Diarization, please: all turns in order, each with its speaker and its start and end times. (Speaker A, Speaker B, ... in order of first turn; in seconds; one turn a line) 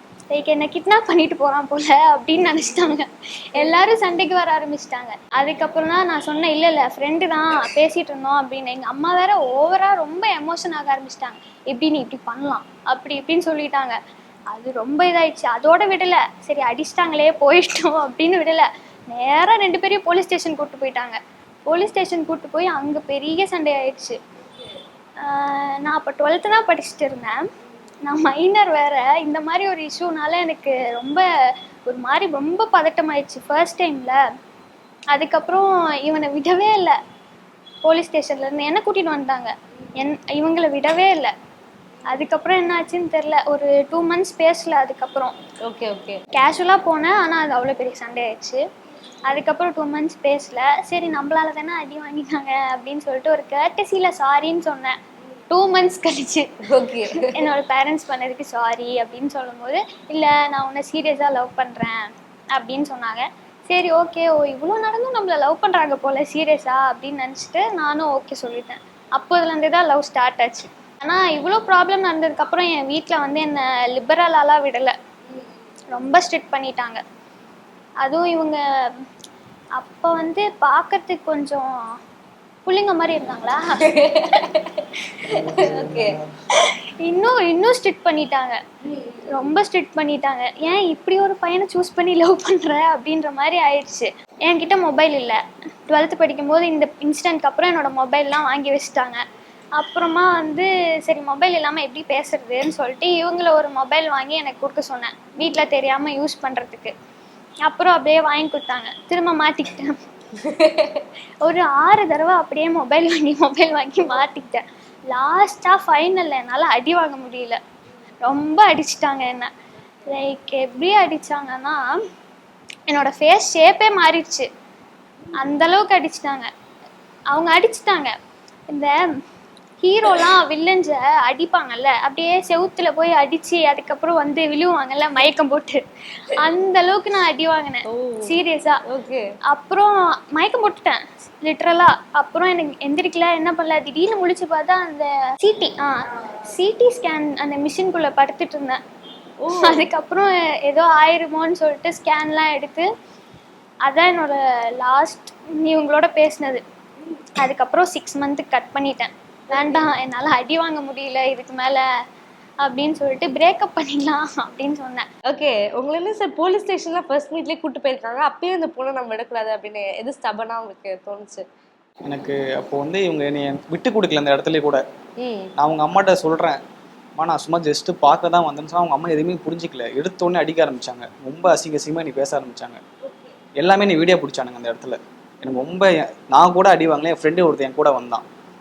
Speaker A: 0.3-14.0
Speaker A: 14.5-24.2
Speaker A: 25.2-27.4
Speaker A: 28.0-31.2
Speaker A: 31.9-34.2
Speaker A: 35.1-37.0
Speaker A: 37.9-41.3
Speaker A: 42.1-45.3
Speaker B: 45.7-46.2
Speaker A: 46.3-48.6
Speaker A: 49.3-54.9
Speaker A: 55.5-56.5
Speaker B: 56.7-57.2
Speaker A: 57.1-62.0
Speaker A: 62.5-74.9
Speaker A: 75.9-77.0
Speaker A: 78.0-78.6
Speaker A: 79.8-81.7
Speaker A: 82.7-83.8
Speaker B: 83.9-86.2
Speaker C: 85.6-86.0
Speaker A: 86.6-88.6
Speaker B: 88.9-89.2
Speaker A: 89.3-99.2
Speaker A: 99.8-106.9
Speaker A: 107.7-109.9
Speaker B: 110.4-111.0
Speaker A: 111.4-117.6
Speaker A: 118.2-119.5
Speaker A: 120.1-121.8
Speaker A: 122.9-124.5
Speaker A: 125.4-126.5
Speaker A: 127.3-128.1
Speaker A: 129.8-135.8
Speaker A: 136.3-138.8
Speaker B: 137.9-138.3
Speaker B: 138.9-139.2
Speaker A: 139.5-148.8
Speaker B: 149.4-149.9
Speaker A: 149.5-152.9
Speaker A: 153.8-156.6
Speaker A: 157.4-161.8
Speaker A: 162.6-165.0
Speaker B: 165.3-171.4
Speaker C: 172.1-174.8
Speaker B: 175.2-175.5
Speaker C: 175.6-176.6
Speaker C: 177.2-182.8
Speaker B: 183.1-183.3
Speaker C: 183.6-188.2